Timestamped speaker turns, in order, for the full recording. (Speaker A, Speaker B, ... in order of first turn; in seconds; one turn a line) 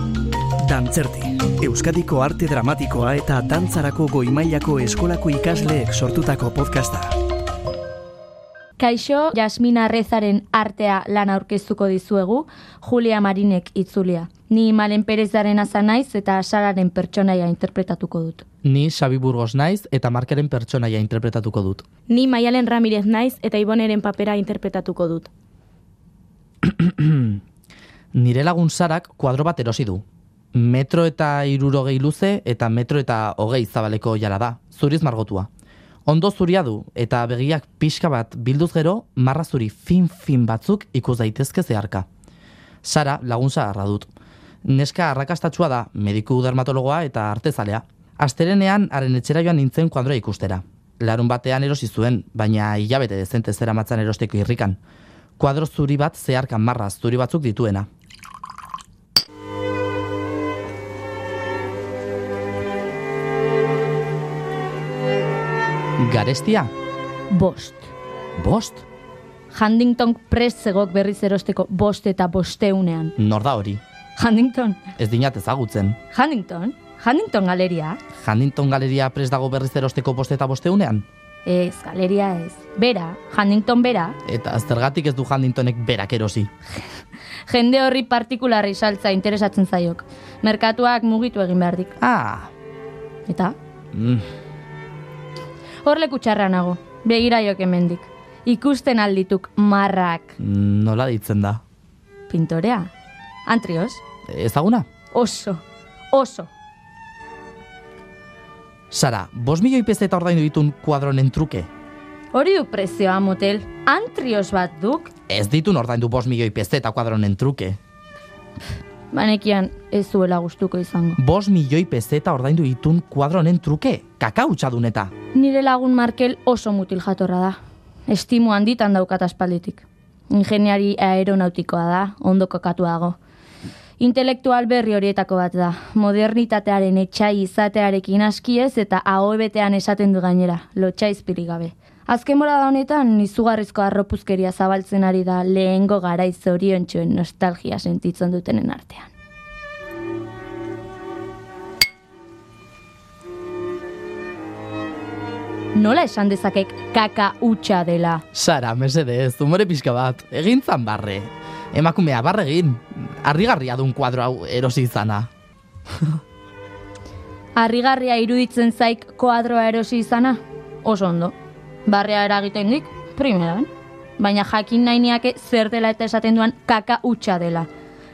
Speaker A: 0.6-7.1
Speaker B: 8.8-18.4
Speaker C: 18.6-21.8
Speaker D: 22.1-25.3
Speaker C: 26.6-27.4
Speaker C: 28.1-30.0
Speaker C: 30.5-35.5
Speaker C: 36.1-42.1
Speaker C: 42.8-44.1
Speaker C: 44.6-54.8
Speaker C: 55.4-57.9
Speaker C: 66.0-66.7
Speaker B: 67.3-67.9
Speaker C: 68.4-68.8
Speaker B: 69.5-73.1
Speaker C: 73.2-73.8
Speaker B: 74.2-74.8
Speaker C: 75.0-76.0
Speaker B: 76.1-78.0
Speaker C: 78.2-81.0
Speaker B: 81.4-84.2
Speaker C: 84.2-86.5
Speaker B: 87.5-92.0
Speaker C: 92.0-92.5
Speaker B: 93.3-93.5
Speaker C: 93.9-94.2
Speaker B: 95.8-100.4
Speaker C: 100.4-101.6
Speaker B: 102.3-102.9
Speaker B: 103.4-104.0
Speaker C: 104.3-104.9
Speaker B: 105.1-106.5
Speaker C: 108.9-111.7
Speaker B: 112.3-115.1
Speaker C: 115.3-117.8
Speaker B: 119.1-121.2
Speaker C: 121.2-125.1
Speaker B: 125.3-127.6
Speaker B: 128.1-133.2
Speaker B: 134.0-149.1
Speaker B: 155.7-158.2
Speaker C: 158.3-165.3
Speaker B: 167.5-171.3
Speaker B: 171.8-177.7